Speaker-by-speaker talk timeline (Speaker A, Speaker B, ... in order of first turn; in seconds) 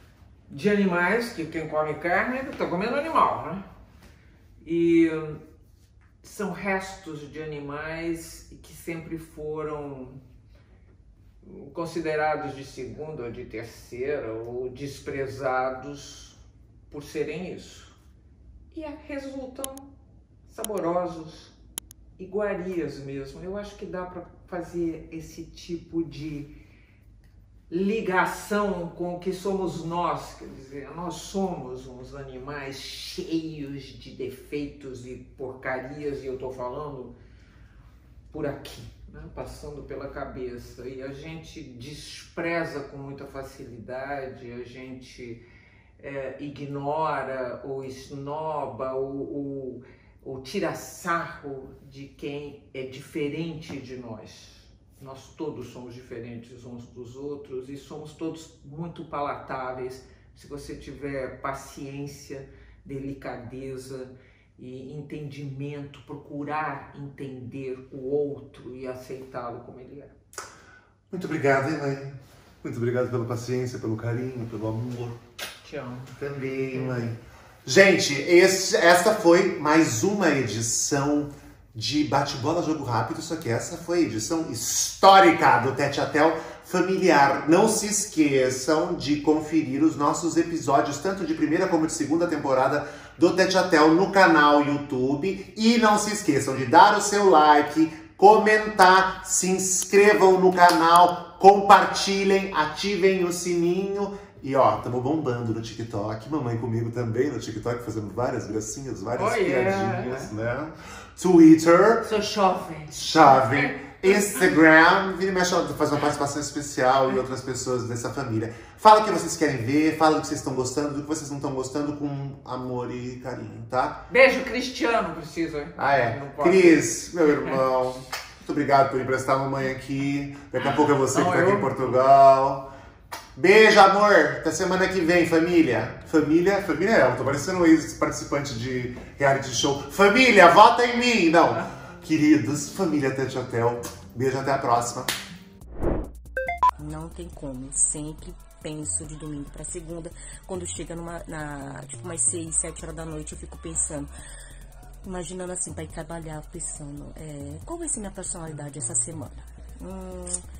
Speaker A: 0.5-3.7, 4.6-5.4, 6.2-10.2, 11.4-18.0, 18.7-19.9, 20.5-21.6, 22.2-26.5, 27.7-37.1, 38.3-45.4, 46.0-70.2, 75.6-76.1, 76.7-77.1, 109.1-110.3, 112.0-113.7, 124.1-127.6, 131.1-132.0
Speaker B: 71.1-75.2, 76.1-112.1, 112.9-124.0, 125.8-132.7, 133.3-145.1
Speaker C: 146.8-154.1, 155.0-160.4